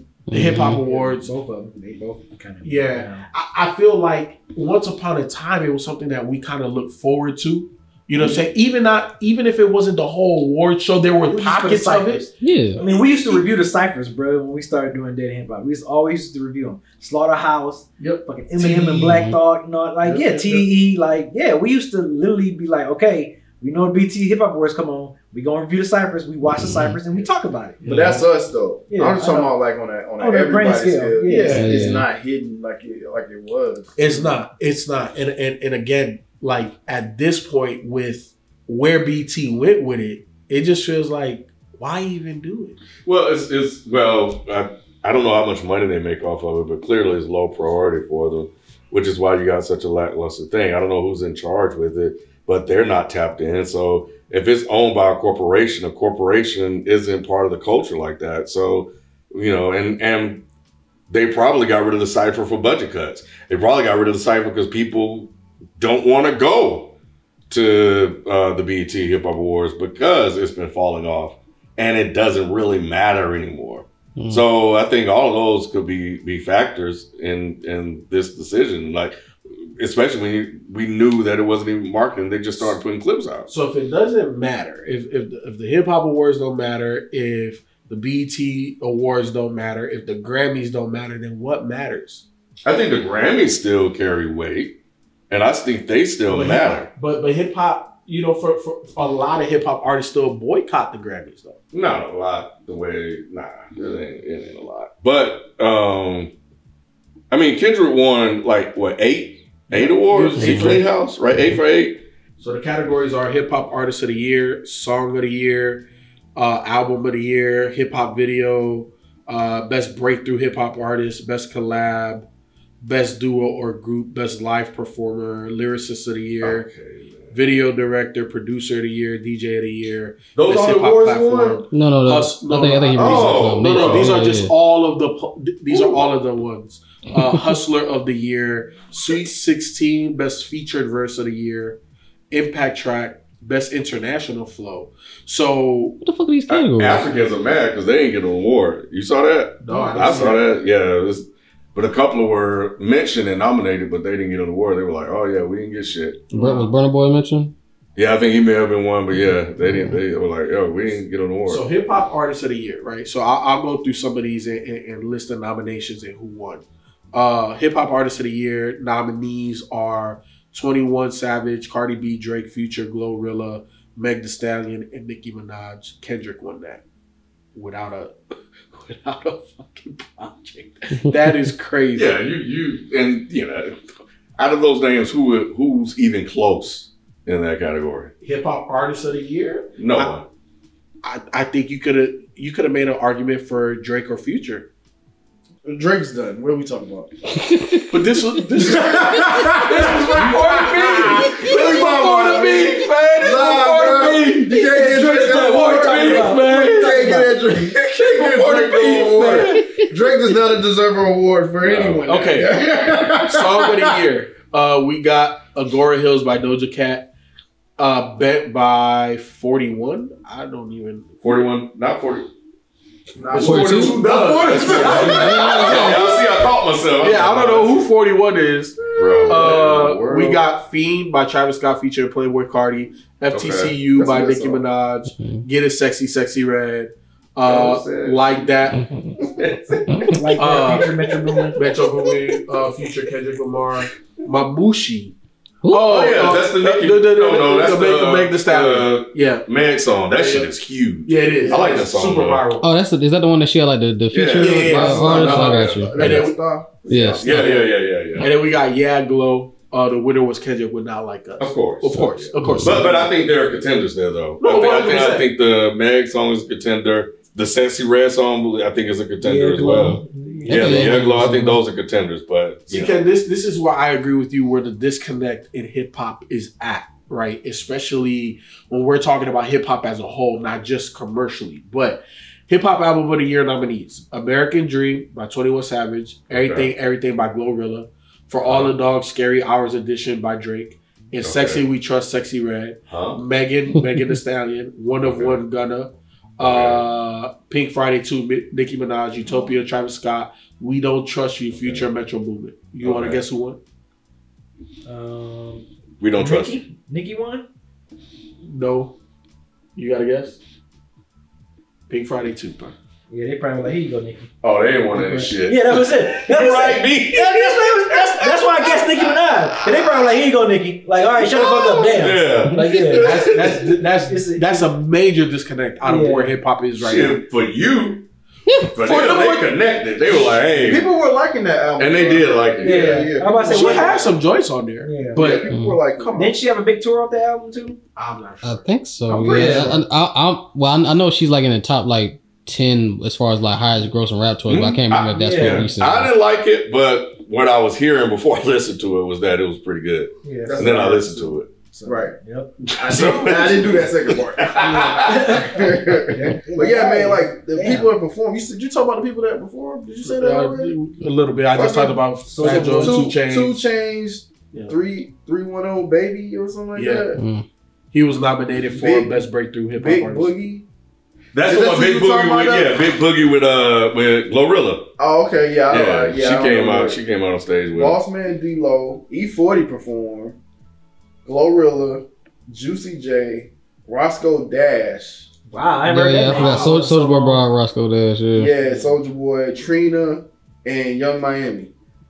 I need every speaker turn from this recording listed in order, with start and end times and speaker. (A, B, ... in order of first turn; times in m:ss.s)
0:00.3-0:00.8 A
0:00.3-0:01.3 B
0:00.8-0:03.2 C
0:02.6-0:12.3 B
0:11.3-0:27.8 C
0:12.4-0:12.8 A
0:12.8-0:13.4 B
0:18.0-0:19.1 B
0:18.9-0:19.4 A
0:20.1-0:20.6 D
0:26.5-0:27.0 A
0:27.8-0:28.2 B
0:27.8-0:34.3 D
0:28.9-0:29.5 C
0:30.2-0:31.6 C
0:31.2-0:31.8 B
0:31.5-0:32.1 A
0:34.0-0:42.8 B
0:43.0-1:00.4 E
1:01.1-1:06.9 E
1:07.5-1:19.2 E
1:14.2-1:14.4 A
1:19.8-1:23.5 E
1:23.5-1:32.2 B
1:32.6-1:34.8 E
1:35.3-1:36.9 E
1:36.3-1:41.6 B
1:41.7-1:46.3 E
1:47.3-1:52.0 E
1:49.7-1:50.8 B
1:50.4-1:50.8 A
1:52.4-2:02.2 B
2:02.8-2:06.7 B
2:06.4-2:07.4 E
2:07.3-2:21.8 B
2:10.4-2:11.4 E
2:10.5-2:11.6 D
2:11.7-2:14.5 A
2:12.9-2:14.2 E
2:15.7-2:16.0 E
2:22.3-2:26.0 B
2:26.0-2:27.1 A
2:26.5-2:36.5 E
2:29.6-2:30.5 B
2:36.3-2:37.5 A
2:38.0-2:41.6 E
2:39.1-2:40.0 A
2:41.4-2:56.8 B
2:57.5-3:02.2 B
3:01.9-3:03.8 E
3:04.4-3:08.1 E
3:08.2-3:10.1 B
3:09.8-3:10.2 E
3:11.0-3:14.7 B
3:15.6-3:17.1 D
3:17.4-3:18.2 A
3:17.9-3:24.5 B
3:18.5-3:22.5 D
3:19.8-3:26.4 E
3:23.2-3:33.9 D
3:24.5-3:27.4 C
3:27.8-3:29.6 E
3:28.2-3:29.6 B
3:31.6-3:33.0 E
3:32.0-3:37.1 B
3:37.8-3:41.5 B
3:41.2-3:42.3 E
3:43.2-3:46.4 D
3:43.3-3:46.3 B
3:43.4-3:44.0 A
3:44.4-3:47.9 E
3:45.0-3:46.0 A
3:46.9-3:58.9 B
3:48.9-3:50.4 E
3:49.0-3:49.5 D
3:53.3-3:53.7 E
3:53.9-3:54.6 D
3:57.4-3:58.5 E
3:59.2-4:00.4 D
3:59.3-4:00.3 E
4:00.1-4:01.8 C
4:00.4-4:01.0 B
4:01.5-4:05.1 B
4:01.8-4:02.1 E
4:05.6-4:05.9 A
4:05.7-4:09.5 B
4:05.8-4:12.4 E
4:10.1-4:10.5 B
4:11.0-4:12.7 B
4:11.4-4:11.8 D
4:12.6-4:16.0 A
4:14.1-4:16.1 E
4:14.3-4:16.4 B
4:14.7-4:17.6 D
4:16.9-4:17.3 A
4:16.9-4:18.3 E
4:17.2-4:23.1 B
4:21.4-4:33.0 E
4:22.4-4:22.9 A
4:24.4-4:25.3 B
4:29.2-4:31.6 C
4:30.4-4:31.6 A
4:32.7-5:03.6 B
4:46.3-4:46.7 E
4:48.4-4:48.7 E
4:51.2-4:51.6 E
4:52.9-4:53.2 E
4:55.0-4:55.4 E
4:56.4-4:56.8 E
4:59.2-4:59.5 C
5:01.5-5:01.8 E
5:02.8-5:03.2 E
5:04.8-5:05.6 C
5:06.0-5:06.6 E
5:06.2-5:07.4 C
5:08.4-5:08.9 B
5:09.8-5:10.4 B
5:11.9-5:12.7 B
5:13.1-5:14.3 C
5:14.4-5:19.9 E
5:14.9-5:24.7 C
5:21.2-5:23.7 E
5:22.6-5:27.2 B
5:25.8-5:26.3 C
5:26.8-5:28.0 E
5:28.5-5:28.7 A
5:28.6-5:30.9 E
5:28.8-5:29.5 B
5:28.9-5:29.5 D
5:30.2-5:34.2 D
5:31.8-5:33.1 E
5:32.6-5:34.1 C
5:33.2-5:35.5 B
5:34.8-5:35.2 C
5:35.1-5:36.4 D
5:35.5-5:35.8 A
5:36.1-5:37.8 C
5:38.0-5:38.7 B
5:38.4-5:46.1 A
5:39.1-5:39.8 D
5:39.3-5:39.8 C
5:44.5-5:51.5 E
5:45.2-5:45.7 C
5:50.2-5:50.9 C
5:50.4-5:52.2 D
5:51.7-5:52.6 C
5:52.7-5:53.3 B
5:52.8-6:00.8 D
5:52.8-5:55.4 E
5:54.6-5:57.9 C
6:00.0-6:03.6 B
6:01.5-6:07.2 D
6:02.2-6:03.1 C
6:06.7-6:07.2 B
6:07.2-6:07.4 A
6:07.9-6:10.3 B
6:08.6-6:09.2 D
6:09.8-6:10.6 D
6:11.3-6:14.9 E
6:11.4-6:12.9 D
6:15.0-6:17.0 D
6:15.7-6:18.0 E
6:17.7-6:20.4 D
6:21.2-6:25.3 D
6:25.5-6:27.4 C
6:25.8-6:28.5 A
6:26.3-6:26.6 D
6:28.3-6:31.7 D
6:28.6-6:28.9 C